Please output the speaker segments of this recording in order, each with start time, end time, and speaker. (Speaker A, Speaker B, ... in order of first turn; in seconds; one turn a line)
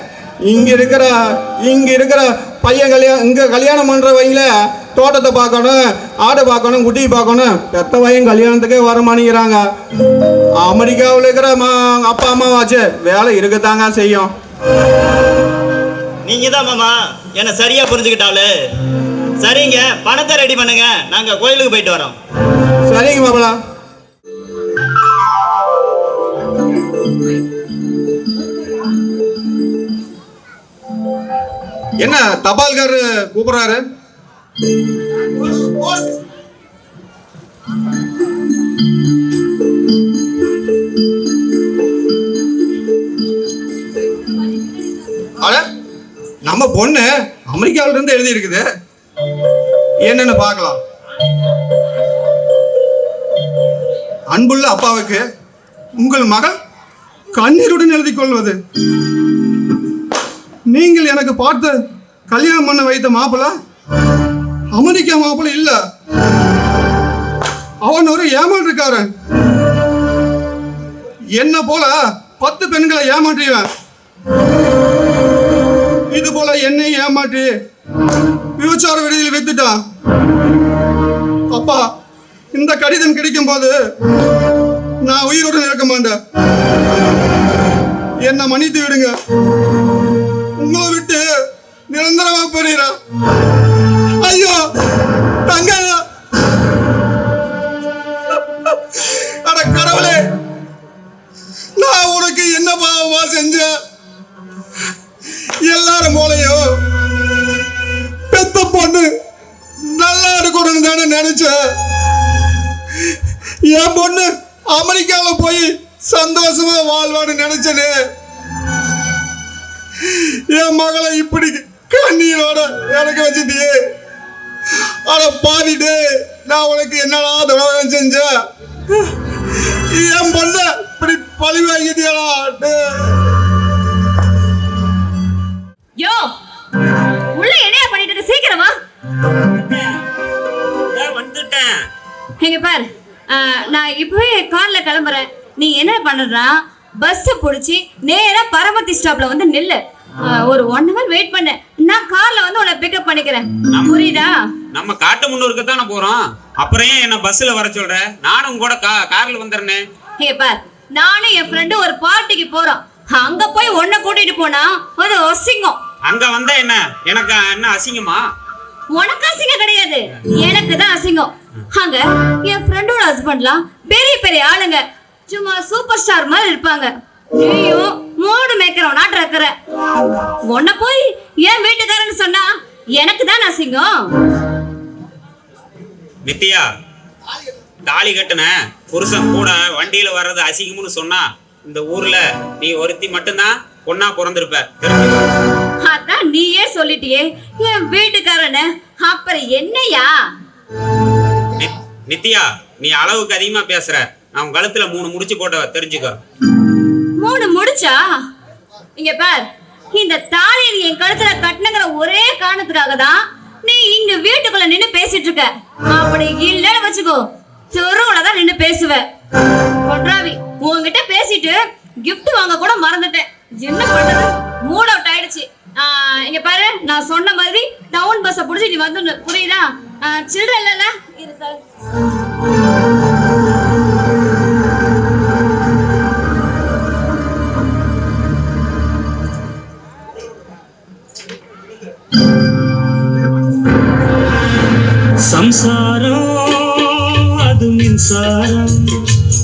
Speaker A: 0.5-9.7
Speaker A: 10.6-14.3
Speaker B: 16.2-18.6
Speaker B: 19.4-22.2
Speaker A: 22.9-23.6
Speaker A: 32.0-33.8
Speaker A: 46.5-48.6
Speaker A: 50.0-50.8
Speaker A: 54.3-55.2
Speaker A: 56.0-56.5
Speaker A: 57.4-58.6
Speaker A: 60.7-61.8
Speaker A: 62.3-63.5
Speaker A: 64.7-65.8
Speaker A: 67.8-69.1
Speaker A: 71.4-73.7
Speaker A: 76.1-77.5
Speaker A: 78.6-79.8
Speaker A: 81.5-81.8
Speaker A: 82.5-83.7
Speaker A: 85.0-86.2
Speaker A: 88.2-89.1
Speaker A: 90.6-91.3
Speaker A: 91.9-92.9
Speaker A: 94.2-94.6
Speaker A: 95.5-96.0
Speaker A: 99.1-100.2
Speaker A: 101.8-103.7
Speaker A: 105.6-106.6
Speaker A: 108.3-109.1
Speaker A: 109.9-111.6
Speaker A: 113.7-117.9
Speaker A: 120.1-123.8
Speaker A: 125.1-128.3
Speaker A: 129.9-133.2
Speaker C: 136.0-136.3
Speaker C: 137.3-138.7
Speaker D: 140.9-141.8
Speaker C: 142.4-154.3
Speaker D: 154.7-159.8
Speaker C: 160.2-165.8
Speaker D: 166.1-168.2
Speaker C: 168.9-179.5
Speaker C: 180.4-184.1
Speaker D: 186.2-186.7
Speaker D: 187.9-195.2
Speaker C: 195.8-200.2
Speaker D: 201.6-206.2
Speaker C: 207.2-208.1
Speaker C: 209.0-219.0
Speaker C: 219.8-231.6
Speaker E: 245.3-248.8